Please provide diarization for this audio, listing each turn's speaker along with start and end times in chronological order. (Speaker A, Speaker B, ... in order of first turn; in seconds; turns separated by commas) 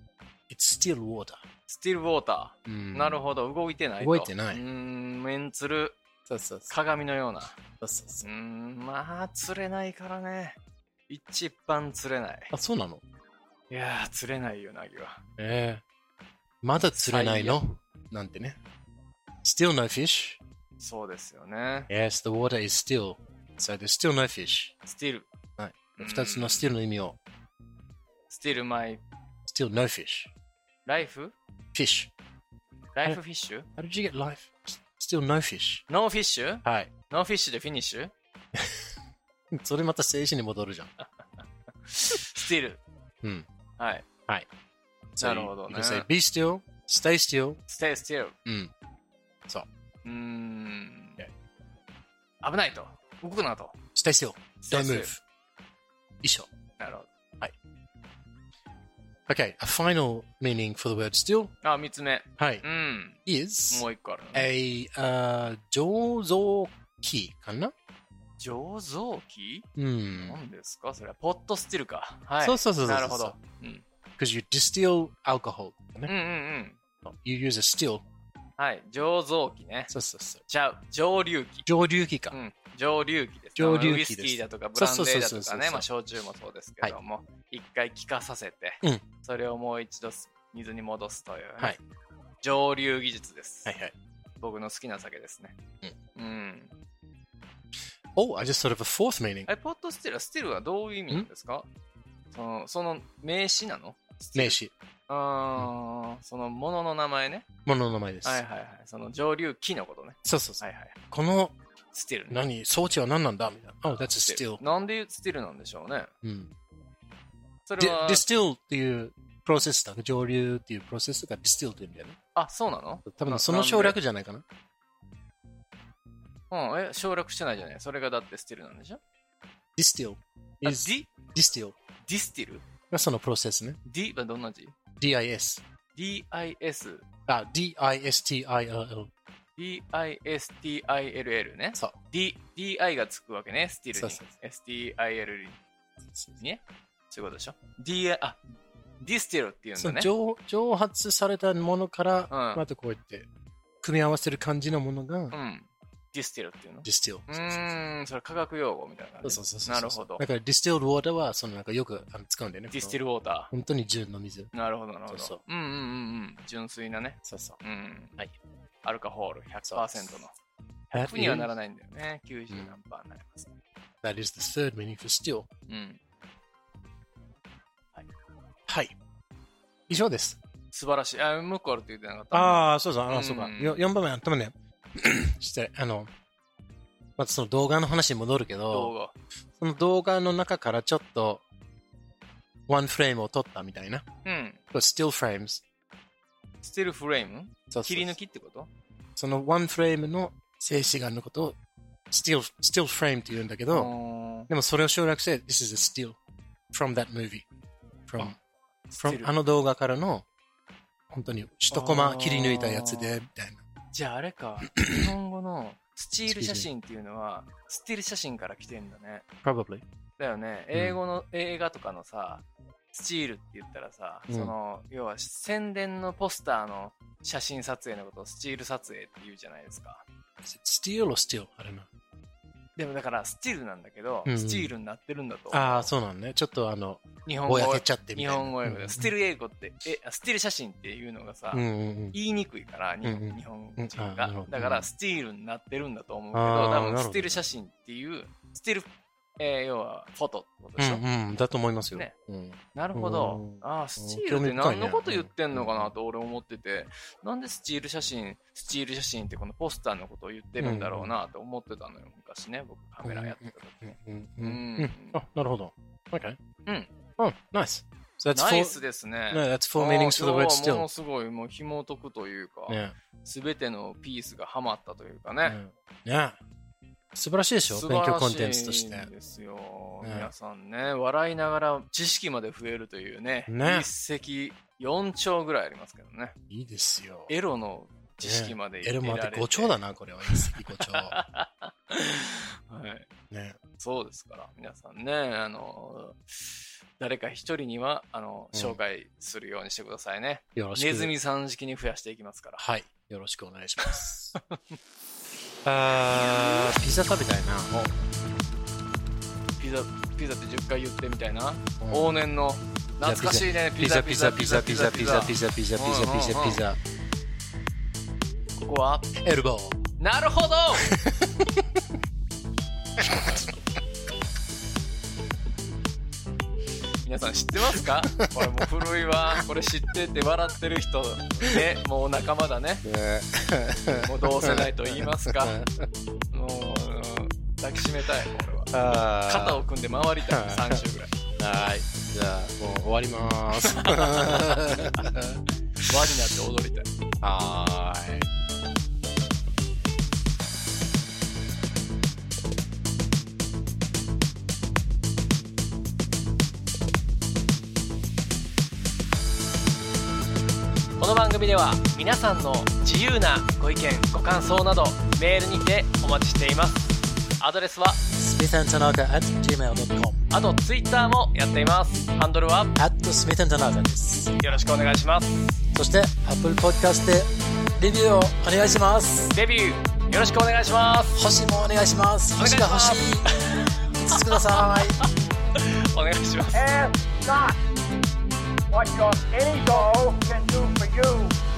Speaker A: 0.5-1.4, Speaker B: 1.7-6.0, Speaker A: 2.6-3.2, Speaker A: 4.0-4.6, Speaker A: 6.3-6.7, Speaker B: 6.7-7.6, Speaker A: 7.8-8.3, Speaker B: 8.2-12.5, Speaker A: 12.5-13.0, Speaker B: 13.7-15.2, Speaker A: 15.4-15.8, Speaker A: 16.6-18.6, Speaker B: 16.9-17.6, Speaker A: 19.4-20.4, Speaker B: 20.8-21.9, Speaker A: 21.9-24.7, Speaker B: 24.9-25.3, Speaker A: 25.6-27.2, Speaker B: 26.0-26.7, Speaker B: 28.3-29.0, Speaker A: 29.5-30.3, Speaker B: 30.9-31.4, Speaker A: 31.7-32.1, Speaker B: 32.9-33.7, Speaker A: 33.8-35.9, Speaker B: 35.9-38.1, Speaker A: 36.6-36.9, Speaker A: 38.5-38.9, Speaker A: 39.5-40.9, Speaker B: 41.8-42.8, Speaker B: 43.8-44.1, Speaker A: 45.1-47.6, Speaker B: 45.2-46.1, Speaker B: 47.7-48.4, Speaker A: 48.4-48.7, Speaker B: 50.0-51.2, Speaker B: 52.4-53.8, Speaker A: 53.9-55.2, Speaker B: 54.6-55.1, Speaker A: 56.2-56.5, Speaker B: 56.8-57.1, Speaker A: 59.3-61.5, Speaker B: 61.6-63.2, Speaker A: 62.4-62.6, Speaker A: 63.2-67.7, Speaker B: 63.7-64.5, Speaker B: 68.4-73.8, Speaker A: 69.8-70.4, Speaker A: 72.4-73.4, Speaker A: 74.2-76.1, Speaker B: 76.1-76.8, Speaker A: 77.0-78.0, Speaker B: 78.6-79.9, Speaker A: 79.9-80.4, Speaker B: 80.5-81.7, Speaker A: 81.7-82.4, Speaker B: 82.3-91.8, Speaker A: 83.6-85.9, Speaker B: 92.4-93.7, Speaker A: 93.7-93.9, Speaker B: 94.4-95.6, Speaker B: 96.1-96.7, Speaker A: 98.1-99.5, Speaker B: 99.5-101.7, Speaker B: 102.3-104.6, Speaker A: 104.3-104.7, Speaker B: 105.1-107.5, Speaker A: 107.7-108.4, Speaker B: 108.2-111.0, Speaker A: 110.2-111.6, Speaker B: 111.9-112.4, Speaker A: 112.3-114.6, Speaker B: 114.0-116.1, Speaker A: 116.2-116.5, Speaker B: 117.7-118.2, Speaker A: 117.8-122.2, Speaker B: 122.4-124.0, Speaker A: 123.1-124.4, Speaker B: 126.5-129.0, Speaker A: 129.8-131.8, Speaker B: 130.6-131.1, Speaker B: 132.0-132.6, Speaker A: 132.9-133.8, Speaker B: 133.8-134.8, Speaker A: 135.0-135.6, Speaker B: 135.9-137.1, Speaker A: 137.3-139.1, Speaker B: 139.6-145.6, Speaker A: 143.9-144.3, Speaker A: 146.1-146.4, Speaker B: 146.4-148.4, Speaker B: 149.0-150.1, Speaker A: 149.8-153.3, Speaker B: 152.3-152.6, Speaker A: 153.8-155.3, Speaker B: 155.3-160.2, Speaker A: 156.8-157.7, Speaker A: 159.2-163.0, Speaker B: 162.7-163.5, Speaker A: 163.5-164.5, Speaker B: 164.5-168.2, Speaker A: 165.1-165.4, Speaker A: 167.2-167.6, Speaker B: 168.8-170.3, Speaker A: 169.6-170.1, Speaker B: 170.9-173.5, Speaker A: 170.9-171.5, Speaker A: 174.0-175.5, Speaker B: 175.7-176.0, Speaker A: 178.7-178.9, Speaker A: 179.9-180.4, Speaker B: 180.7-183.8, Speaker A: 182.3-186.1, Speaker A: 187.2-188.9, Speaker B: 188.7-189.1, Speaker A: 189.6-191.4, Speaker A: 192.7-194.0, Speaker B: 194.2-194.6, Speaker A: 194.7-195.6, Speaker B: 196.6-198.7, Speaker A: 197.7-198.2, Speaker A: 199.2-201.6, Speaker A: 202.1-203.9, Speaker B: 203.7-204.5, Speaker A: 204.5-206.2, Speaker A: 206.7-207.5, Speaker A: 208.1-208.4, Speaker B: 208.9-209.3, Speaker A: 209.0-210.2, Speaker A: 211.1-213.6, Speaker B: 211.7-213.1, Speaker B: 213.9-219.2, Speaker A: 214.7-215.1, Speaker A: 216.3-216.7, Speaker A: 219.4-219.8, Speaker B: 220.2-230.0, Speaker A: 220.7-221.0, Speaker A: 224.3-224.5, Speaker A: 230.4-231.9, Speaker B: 232.8-235.9, Speaker A: 234.2-234.7, Speaker A: 235.5-239.1, Speaker B: 237.2-251.0, Speaker A: 241.5-242.2, Speaker A: 243.0-244.9, Speaker A: 246.3-247.4, Speaker A: 250.8-255.9, Speaker B: 252.7-265.2, Speaker A: 260.6-261.1, Speaker A: 263.0-266.4, Speaker B: 266.6-266.9, Speaker A: 267.2-268.8, Speaker B: 268.3-275.6, Speaker A: 269.3-270.9, Speaker A: 272.7-272.9, Speaker A: 275.4-276.4, Speaker A: 277.1-279.1, Speaker B: 277.7-286.4, Speaker A: 280.0-280.3, Speaker A: 283.5-283.9, Speaker A: 286.5-287.3, Speaker B: 287.3-293.1, Speaker A: 288.2-291.1, Speaker A: 293.3-293.6, Speaker B: 293.8-302.6, Speaker A: 298.5-298.8, Speaker A: 300.5-301.1, Speaker A: 302.6-304.4, Speaker B: 303.8-304.8, Speaker A: 305.6-307.9, Speaker B: 306.2-306.7, Speaker B: 309.6-316.6, Speaker A: 311.8-312.2, Speaker A: 313.0-316.8, Speaker B: 318.6-319.1, Speaker A: 319.2-319.8, Speaker B: 320.0-320.9, Speaker A: 320.9-321.8, Speaker A: 323.0-323.5, Speaker B: 327.0-332.9, Speaker A: 328.2-328.5, Speaker A: 332.9-335.9, Speaker B: 333.9-335.6, Speaker B: 336.3-338.7, Speaker A: 338.7-339.6, Speaker B: 339.2-341.1, Speaker A: 340.3-340.8, Speaker A: 341.4-345.4, Speaker B: 343.6-345.1, Speaker B: 345.9-346.9, Speaker A: 347.2-348.3, Speaker B: 361.0-368.0, Speaker A: 368.1-370.2, Speaker B: 370.3-372.8, Speaker A: 372.8-374.4, Speaker B: 374.4-375.5, Speaker A: 375.7-379.3, Speaker B: 379.3-381.2, Speaker A: 381.1-383.4, Speaker B: 382.4-385.1, Speaker A: 383.9-385.0, Speaker B: 385.6-386.7, Speaker C: 386.5-387.6, Speaker C: 388.7-391.4